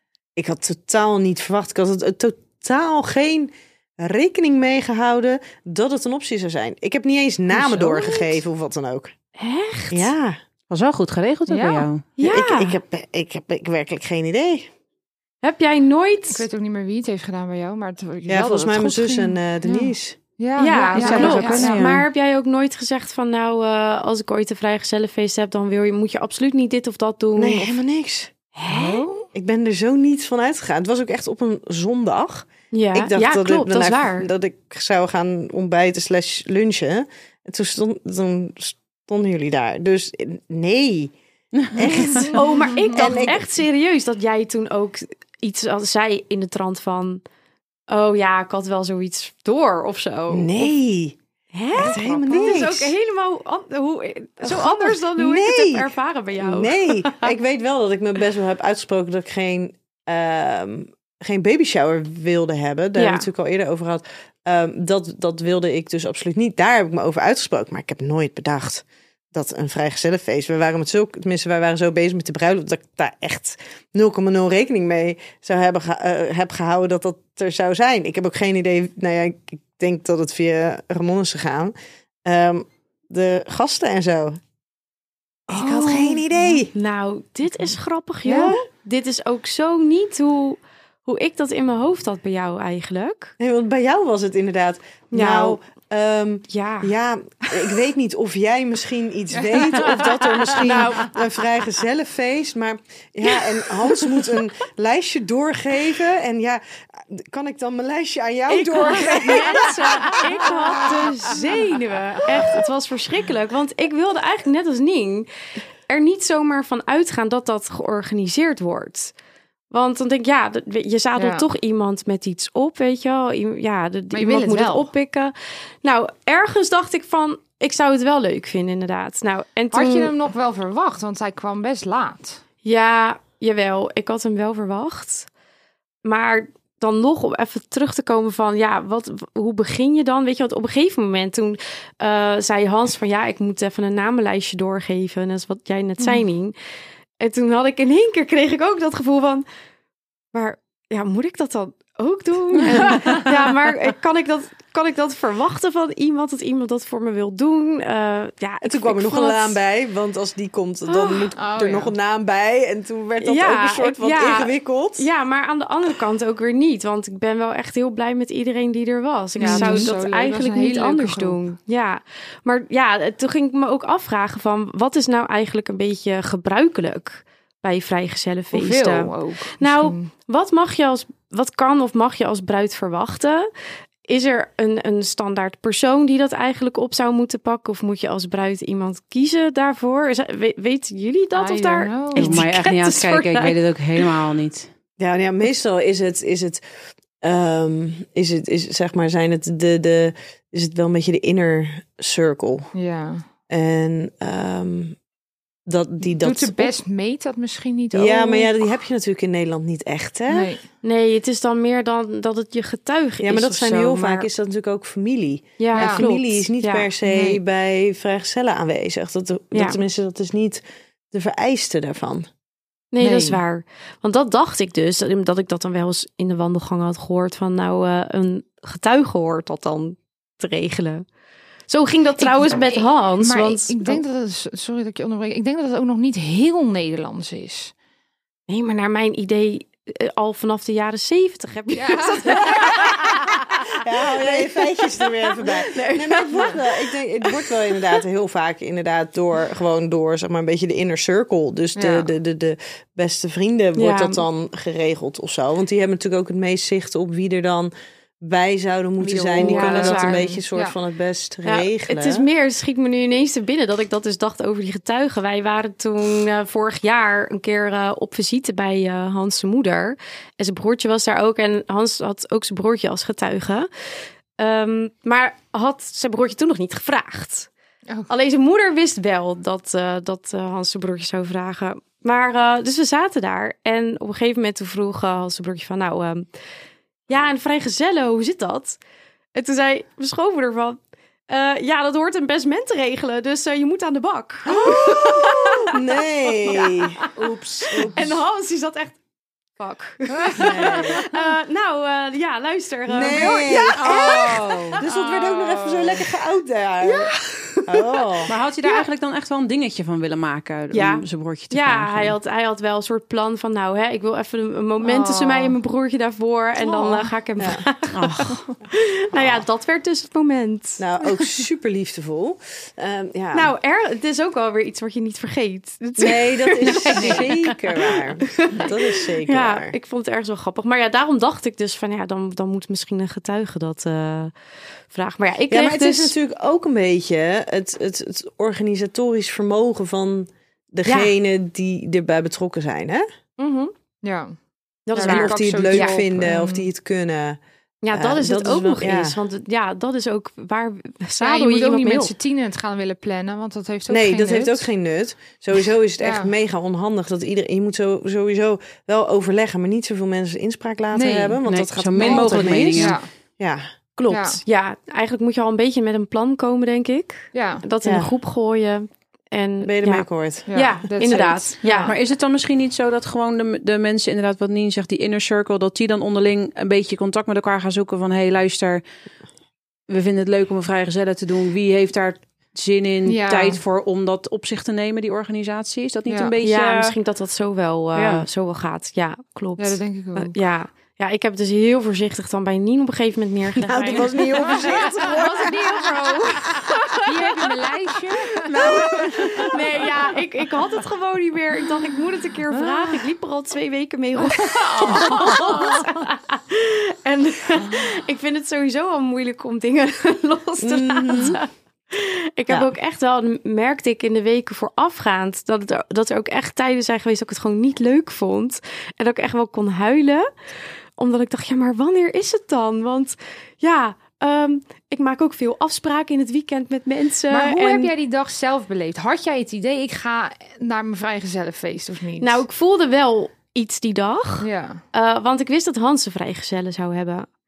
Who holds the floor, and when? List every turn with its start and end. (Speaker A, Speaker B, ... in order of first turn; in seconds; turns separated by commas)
Speaker A: 0.3-9.1, Speaker B: 7.6-8.2, Speaker B: 9.4-10.1, Speaker A: 9.9-10.4, Speaker C: 10.7-12.0, Speaker D: 11.5-11.9, Speaker B: 12.2-12.8, Speaker A: 12.2-14.7, Speaker B: 15.4-16.4, Speaker D: 16.3-21.8, Speaker A: 18.3-20.2, Speaker B: 20.6-27.8, Speaker A: 20.9-21.6, Speaker C: 20.9-22.0, Speaker A: 27.4-28.3, Speaker B: 28.5-29.1, Speaker D: 28.7-29.2, Speaker A: 29.3-41.1, Speaker B: 32.7-34.3, Speaker C: 41.5-42.2, Speaker A: 41.7-43.4, Speaker D: 41.9-43.3, Speaker B: 42.3-47.2, Speaker B: 47.9-50.5, Speaker A: 50.3-51.2, Speaker B: 51.5-57.3, Speaker A: 51.7-52.9, Speaker A: 54.4-81.7, Speaker B: 63.0-63.3, Speaker A: 82.2-84.4, Speaker A: 85.5-86.7, Speaker B: 85.6-93.3, Speaker D: 85.6-86.6, Speaker A: 88.2-88.6, Speaker D: 88.3-88.5, Speaker A: 93.4-111.3, Speaker B: 95.1-95.6, Speaker B: 96.5-96.9, Speaker D: 99.3-100.0, Speaker B: 99.7-101.2, Speaker B: 103.4-103.9, Speaker B: 108.5-115.3, Speaker A: 112.3-112.6, Speaker B: 115.9-119.1, Speaker B: 119.7-130.1, Speaker D: 121.2-121.5, Speaker D: 124.1-124.9, Speaker D: 129.7-132.4, Speaker B: 132.6-135.3, Speaker B: 136.0-146.5, Speaker B: 147.2-149.4, Speaker B: 150.3-159.6, Speaker A: 158.6-165.1, Speaker D: 161.1-161.9, Speaker B: 163.2-183.5, Speaker D: 169.4-171.4, Speaker A: 169.4-169.9, Speaker D: 178.5-180.1, Speaker B: 184.1-193.6, Speaker D: 191.3-192.4, Speaker C: 192.2-194.7, Speaker A: 195.0-196.6, Speaker A: 197.2-202.7, Speaker D: 202.7-203.2, Speaker A: 203.5-204.9, Speaker A: 205.7-206.8, Speaker D: 206.0-208.7, Speaker A: 207.9-210.5, Speaker D: 210.3-210.6, Speaker B: 210.8-214.3, Speaker A: 213.2-220.6, Speaker B: 215.6-216.9, Speaker D: 215.7-216.0, Speaker D: 217.1-217.4, Speaker B: 219.5-219.8, Speaker A: 221.1-222.3, Speaker B: 222.9-231.0, Speaker D: 223.0-223.4, Speaker B: 231.7-234.0, Speaker D: 232.2-237.7, Speaker B: 238.5-247.4, Speaker D: 241.7-243.1, Speaker A: 243.7-262.2, Speaker D: 251.7-252.1, Speaker B: 253.8-254.2, Speaker D: 259.0-260.8, Speaker B: 259.4-260.4, Speaker B: 261.4-273.7, Speaker B: 274.4-277.5, Speaker B: 278.1-286.3, Speaker B: 287.1-288.8, Speaker B: 289.3-295.8, Speaker A: 294.5-297.0, Speaker B: 296.4-297.1, Speaker C: 297.2-297.9, Speaker A: 297.7-298.1, Speaker B: 297.8-299.0, Speaker B: 299.6-305.9, Speaker D: 300.1-301.2, Speaker A: 300.4-301.0, Speaker A: 302.9-307.1, Speaker C: 303.7-304.8, Speaker B: 306.8-308.8, Speaker A: 307.7-308.3, Speaker C: 308.3-312.1, Speaker B: 310.7-321.2, Speaker D: 314.8-315.6, Speaker D: 316.6-317.1, Speaker A: 317.4-317.6, Speaker C: 317.9-318.5, Speaker A: 320.8-323.5, Speaker B: 323.3-334.3, Speaker A: 326.0-329.7, Speaker D: 326.9-327.2, Speaker B: 334.9-336.1, Speaker A: 335.5-343.0, Speaker B: 340.8-341.1, Speaker B: 343.4-343.7, Speaker D: 344.0-344.4, Speaker B: 344.9-346.0, Speaker D: 344.9-346.7, Speaker A: 344.9-347.4, Speaker B: 347.8-352.1, Speaker A: 347.9-349.2, Speaker D: 351.2-354.6, Speaker A: 353.9-363.6, Speaker D: 356.0-356.3, Speaker D: 360.9-361.4, Speaker C: 361.4-363.0, Speaker D: 362.0-363.1, Speaker B: 363.9-371.9, Speaker D: 364.1-364.4, Speaker D: 367.3-367.6, Speaker A: 367.8-368.1, Speaker A: 369.6-370.5, Speaker D: 370.5-371.9, Speaker C: 371.8-378.8, Speaker C: 379.9-386.9, Speaker D: 383.0-383.6, Speaker B: 386.4-397.6, Speaker C: 387.9-388.2, Speaker D: 389.6-390.3, Speaker A: 393.6-395.8, Speaker D: 394.3-399.9, Speaker B: 398.5-420.3, Speaker A: 398.5-399.4, Speaker D: 402.5-403.0, Speaker D: 404.2-406.0, Speaker D: 407.6-407.9, Speaker A: 410.6-411.4, Speaker B: 421.0-427.9, Speaker D: 427.3-432.4, Speaker B: 432.2-437.3, Speaker D: 434.4-434.8